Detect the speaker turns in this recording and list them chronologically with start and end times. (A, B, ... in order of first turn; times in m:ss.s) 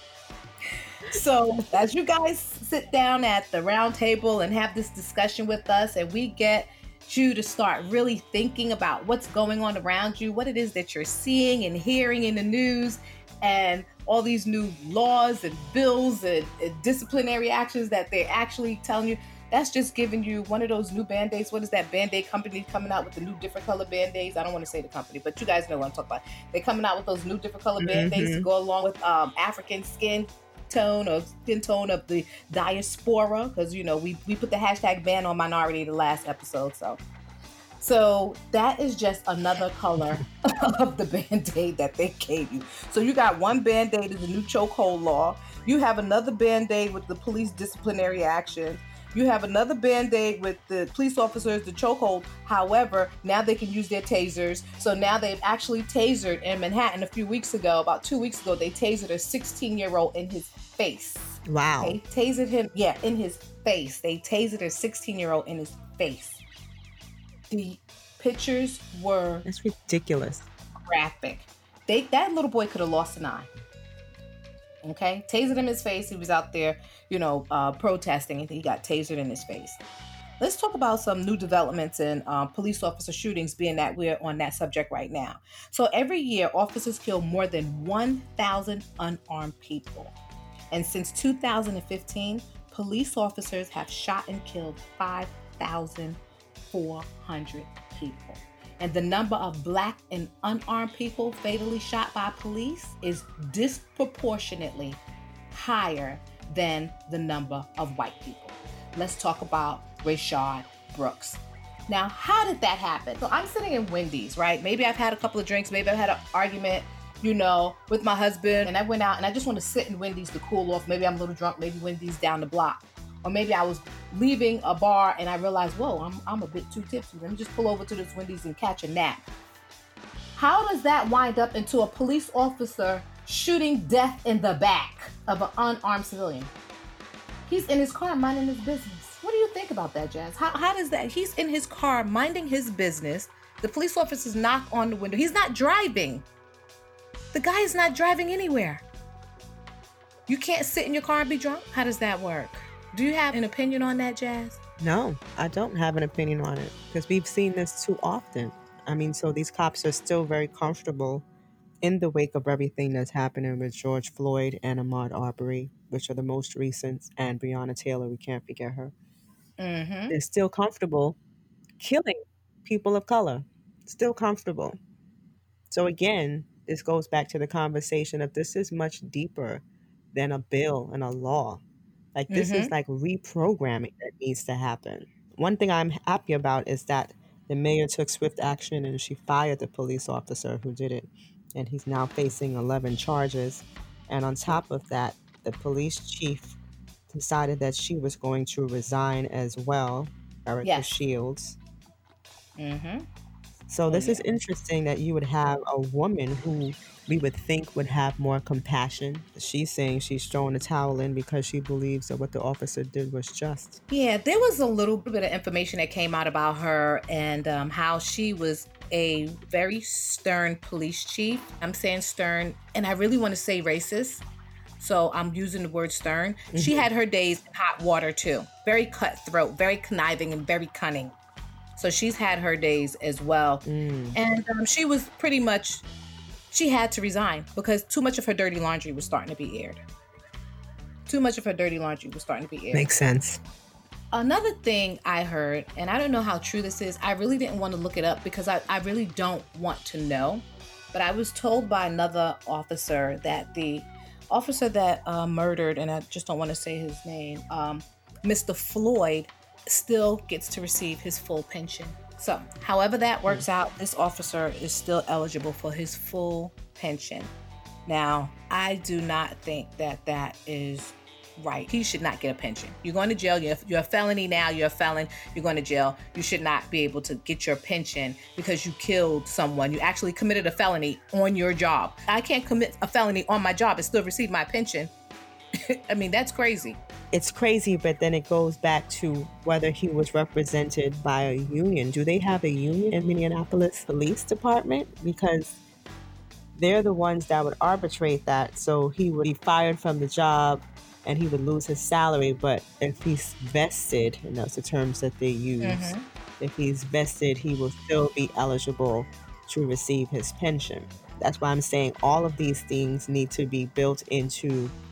0:01.0-0:37.0 A
0:27.8-0:28.4 B
0:37.8-1:06.4 A
1:01.4-1:02.0 B
1:07.5-1:09.4 A
1:09.4-1:10.5 B
1:10.8-1:13.5 A
1:14.8-1:19.8 A
1:20.4-1:30.2 A
1:30.7-2:09.2 A
2:10.4-2:16.5 A
2:17.5-2:26.2 A
2:27.3-2:28.8 A
2:30.3-2:34.6 A
2:34.8-2:41.2 B
2:41.8-2:48.9 B
2:49.6-2:50.2 A
2:50.1-2:51.2 B
2:51.8-2:54.8 B
2:55.7-3:01.6 B
3:02.1-3:16.6 B
3:02.3-3:02.7 A
3:17.1-3:21.6 B
3:20.6-3:20.9 A
3:22.6-3:23.0 A
3:23.7-3:33.8 B
3:23.9-3:24.2 A
3:33.9-3:44.2 A
3:44.8-3:51.2 A
3:46.5-3:46.8 B
3:51.8-3:55.8 A
3:53.6-3:54.2 B
3:56.5-3:59.8 A
4:01.1-4:02.9 A
4:02.7-4:03.4 B
4:04.1-4:27.3 A
4:27.9-4:44.9 A
4:45.7-4:46.8 A
4:47.1-4:55.6 B
4:56.5-5:14.7 B
5:05.6-5:06.0 A